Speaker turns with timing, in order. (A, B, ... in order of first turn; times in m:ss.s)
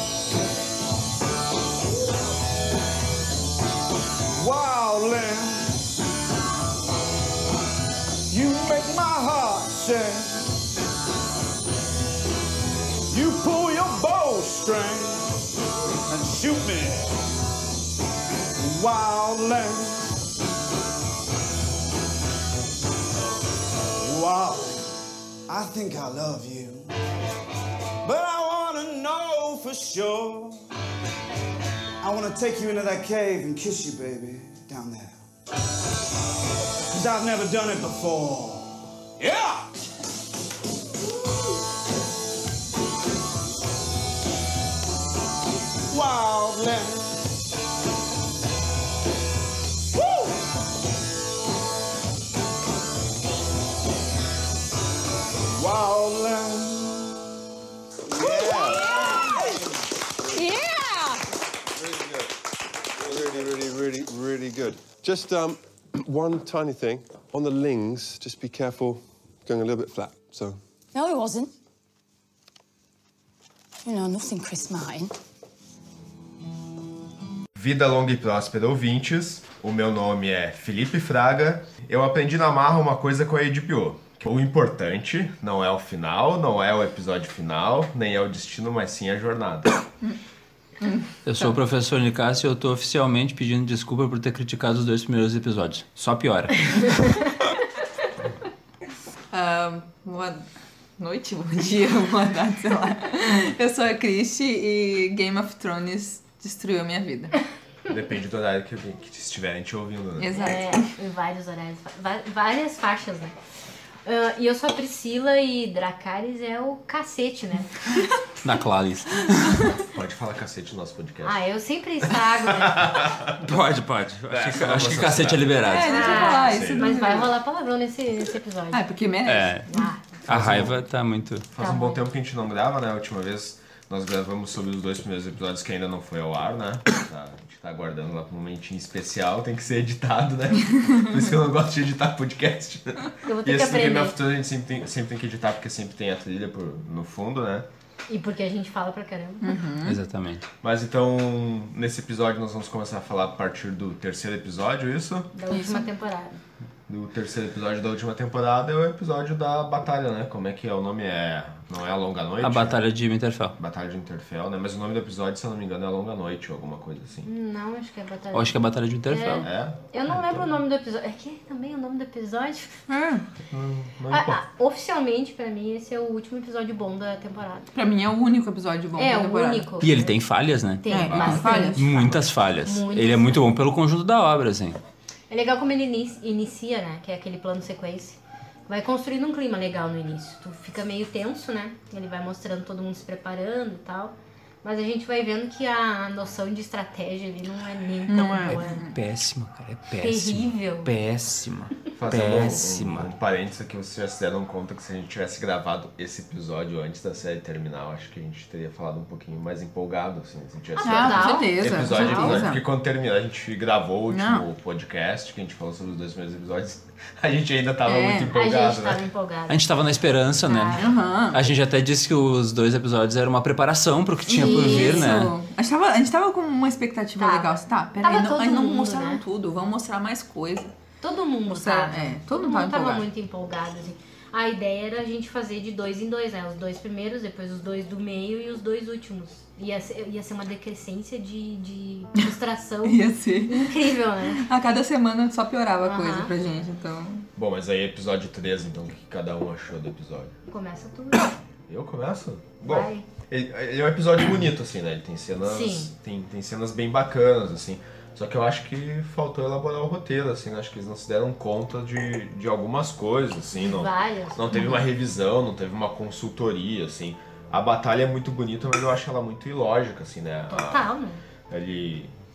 0:04.3-0:05.8 A
0:08.3-0:10.5 A
0:13.1-0:15.4 A
0:16.1-0:17.1 A
0:18.6-0:20.1 A
0:24.0-0:25.0 A
0:25.5-0:26.9 A
0:28.0-0:30.7 A
0:32.0-0:35.2 A
0:36.9-0:39.7 A
0:45.9-0:47.2 A
0:50.0-0:50.4 A
0:55.6-0:57.2 A
0:58.1-0:59.6 B
0:58.2-0:59.6 C
0:58.6-0:59.6 A
1:00.3-1:01.2 C
1:01.8-1:02.3 B
1:03.0-1:10.6 B
1:10.9-1:11.5 C
1:13.8-1:15.1 C
1:17.6-1:29.8 D
1:30.8-1:31.5 E
1:31.3-1:37.0 F
1:39.3-1:40.4 E
1:41.0-1:47.3 E
1:47.9-1:50.5 D
1:50.2-1:50.9 E
1:50.4-1:53.4 G
1:54.0-1:57.7 G
1:58.4-1:59.7 F
1:59.9-2:01.4 D
2:01.2-2:03.0 G
2:02.0-2:03.4 D
2:03.4-2:06.3 F
2:04.3-2:05.6 D
2:05.7-2:07.3 E
2:05.8-2:08.8 G
2:06.3-2:06.9 D
2:08.7-2:09.9 E
2:09.3-2:09.6 F
2:09.7-2:10.2 G
2:10.3-2:10.8 D
2:10.3-2:11.5 F
2:11.5-2:27.7 D
2:11.6-2:12.0 G
2:23.2-2:24.2 G
2:28.1-2:29.6 G
2:29.4-2:30.0 E
2:29.8-2:30.5 F
2:30.6-2:35.3 D
2:35.3-2:36.4 G
2:35.5-2:35.9 E
2:36.9-2:42.8 D
2:42.4-2:43.6 F
2:43.6-2:47.3 D
2:47.2-2:52.8 G
2:48.3-2:49.5 F
2:49.4-2:50.5 D
2:52.9-2:53.3 E
2:53.4-2:54.4 D
2:54.1-2:57.7 G
2:57.8-2:59.7 E
2:59.0-3:00.2 G
2:59.8-3:04.8 F
3:00.8-3:03.4 G
3:00.9-3:01.8 E
3:05.3-3:18.8 G
3:18.1-3:19.0 E
3:18.5-3:23.1 F
3:19.9-3:20.9 G
3:22.0-3:39.0 D
3:30.8-3:32.5 G
3:30.8-3:32.6 E
3:34.1-3:34.4 E
3:37.9-3:38.3 E
3:38.3-3:39.6 G
3:39.5-3:45.3 F
3:40.4-3:40.8 G
3:40.8-3:41.4 E
3:44.3-3:50.7 E
3:44.4-3:45.2 G
3:47.2-3:49.2 G
3:51.0-4:04.4 G
3:51.5-3:53.1 E
4:02.8-4:07.2 E
4:05.8-4:06.3 G
4:07.4-4:10.3 D
4:10.5-4:11.4 G
4:11.7-4:30.9 D
4:12.7-4:13.0 G
4:15.4-4:15.9 G
4:23.6-4:24.8 G
4:30.5-4:31.2 G
4:31.5-4:32.1 D